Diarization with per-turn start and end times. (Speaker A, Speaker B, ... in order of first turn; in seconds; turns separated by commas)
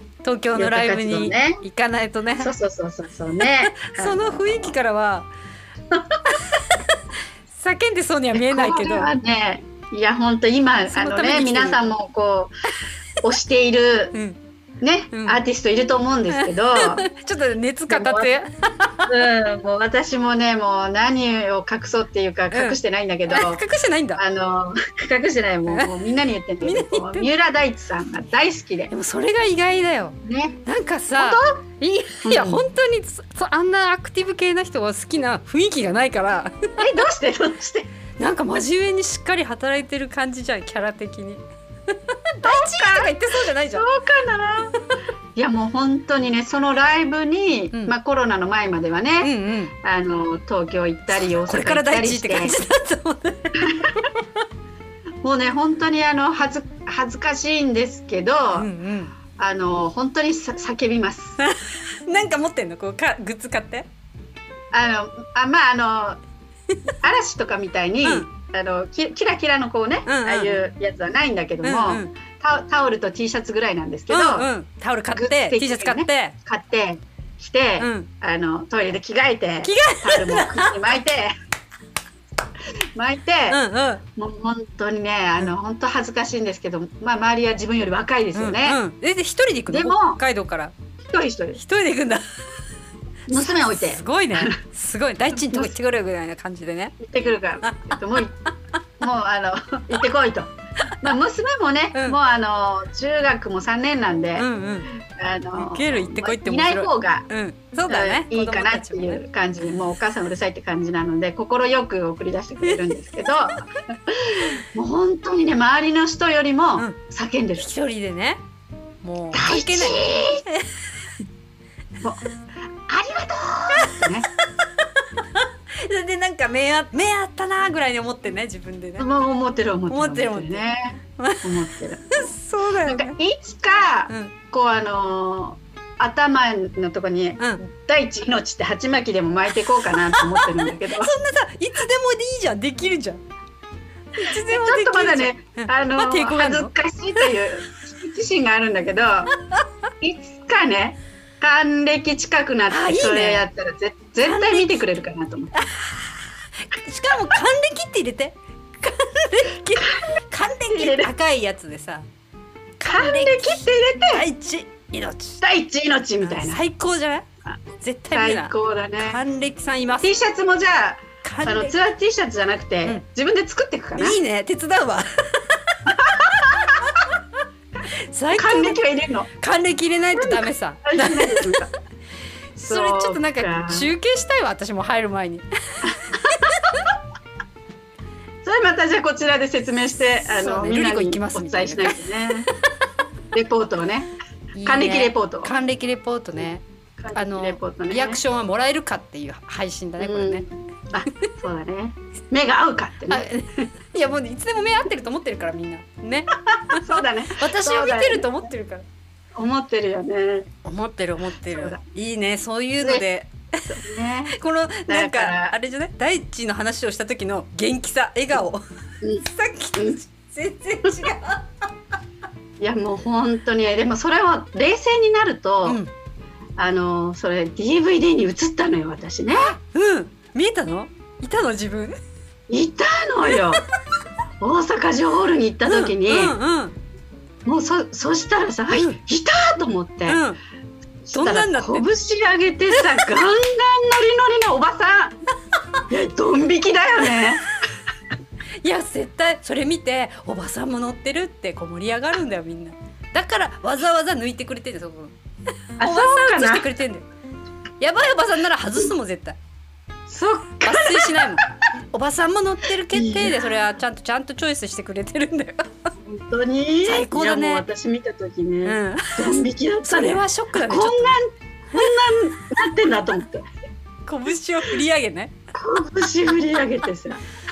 Speaker A: 0.2-2.5, Speaker B: 0.5-1.6, Speaker B: 2.4-4.4, Speaker A: 3.6-5.3, Speaker A: 7.5-9.1, Speaker B: 8.3-12.5, Speaker A: 10.9-11.9, Speaker B: 13.2-14.1, Speaker A: 14.1-14.4, Speaker B: 14.8-17.1, Speaker A: 15.1-15.4, Speaker A: 16.4-19.1, Speaker B: 17.9-18.3, Speaker B: 19.1-23.6, Speaker A: 22.5-24.2, Speaker B: 24.2-28.9, Speaker A: 25.7-25.9, Speaker A: 26.6-27.3, Speaker A: 28.9-36.5, Speaker B: 30.2-30.6, Speaker B: 31.2-31.6, Speaker B: 32.2-32.7, Speaker B: 36.8-37.9, Speaker A: 38.2-43.9, Speaker B: 42.4-44.8, Speaker B: 45.4-52.6, Speaker A: 49.2-49.7, Speaker A: 51.1-54.2, Speaker B: 53.6-54.0, Speaker B: 55.2-58.7, Speaker A: 58.5-59.1, Speaker B: 59.4-61.4, Speaker A: 61.4-63.9, Speaker B: 64.7-66.2, Speaker B: 67.0-74.5, Speaker A: 70.1-70.6, Speaker A: 71.6-72.1, Speaker A: 74.1-76.3, Speaker B: 75.1-81.3, Speaker A: 77.8-78.1, Speaker A: 79.6-80.8, Speaker B: 83.0-83.6, Speaker A: 83.5-84.0, Speaker B: 84.2-88.8, Speaker A: 88.3-90.7, Speaker B: 89.7-90.2, Speaker B: 91.1-91.6, Speaker A: 91.6-92.2, Speaker B: 93.3-94.6, Speaker A: 93.3-97.0, Speaker B: 95.5-95.7, Speaker B: 97.0-98.3, Speaker A: 97.6-98.2, Speaker B: 99.0-107.3, Speaker A: 104.4-105.0, Speaker A: 105.6-109.2, Speaker B: 107.9-117.7, Speaker A: 117.6-118.4, Speaker A: 119.0-120.7, Speaker B: 119.3-120.4, Speaker B: 122.9-124.3, Speaker A: 125.3-129.1, Speaker B: 129.0-132.3, Speaker A: 129.9-130.6, Speaker A: 131.2-133.2, Speaker B: 132.8-141.1, Speaker A: 134.1-134.3, Speaker A: 140.0-143.2, Speaker A: 144.2-147.3, Speaker B: 144.2-149.3, Speaker B: 150.0-155.5, Speaker A: 152.7-153.5, Speaker A: 154.2-154.9, Speaker A: 155.5-162.1, Speaker B: 160.7-161.1, Speaker A: 162.8-165.4, Speaker B: 162.9-164.2, Speaker B: 165.4-166.6, Speaker A: 166.2-167.3, Speaker A: 167.8-170.1, Speaker B: 168.1-169.2, Speaker B: 170.0-174.2, Speaker A: 171.2-171.8, Speaker A: 174.0-175.8, Speaker B: 175.9-176.7, Speaker A: 176.6-177.1, Speaker A: 178.1-178.8, Speaker B: 178.3-179.3, Speaker A: 179.4-181.7, Speaker B: 180.2-181.7, Speaker A: 182.6-186.8, Speaker B: 182.6-183.9, Speaker B: 188.4-192.5, Speaker A: 190.2-192.0, Speaker B: 193.3-194.1, Speaker A: 194.6-196.6, Speaker B: 194.6-195.5, Speaker B: 197.0-198.2, Speaker A: 197.2-200.5, Speaker B: 200.0-203.3, Speaker A: 203.1-208.8, Speaker B: 206.5-208.3, Speaker B: 209.4-210.5, Speaker A: 210.7-213.7, Speaker B: 211.4-211.8, Speaker B: 213.7-214.3, Speaker A: 214.3-218.6, Speaker B: 214.9-215.6, Speaker A: 219.2-221.5, Speaker B: 222.6-225.8, Speaker A: 225.7-225.9, Speaker B: 226.6-229.5, Speaker A: 229.5-232.0, Speaker B: 232.5-233.7, Speaker B: 234.4-236.4, Speaker A: 235.7-236.8, Speaker B: 237.5-240.2, Speaker A: 238.7-239.0, Speaker A: 240.1-240.4, Speaker B: 241.1-245.2, Speaker A: 241.1-241.9, Speaker B: 245.9-247.5, Speaker A: 248.6-255.2, Speaker A: 255.8-257.1, Speaker B: 255.8-256.7, Speaker A: 257.8-259.4, Speaker B: 260.1-261.3, Speaker A: 260.6-265.6, Speaker B: 263.0-263.4, Speaker B: 266.0-273.4, Speaker A: 266.9-267.6, Speaker A: 268.6-269.3, Speaker A: 269.8-271.2, Speaker A: 274.1-275.3, Speaker B: 275.5-277.2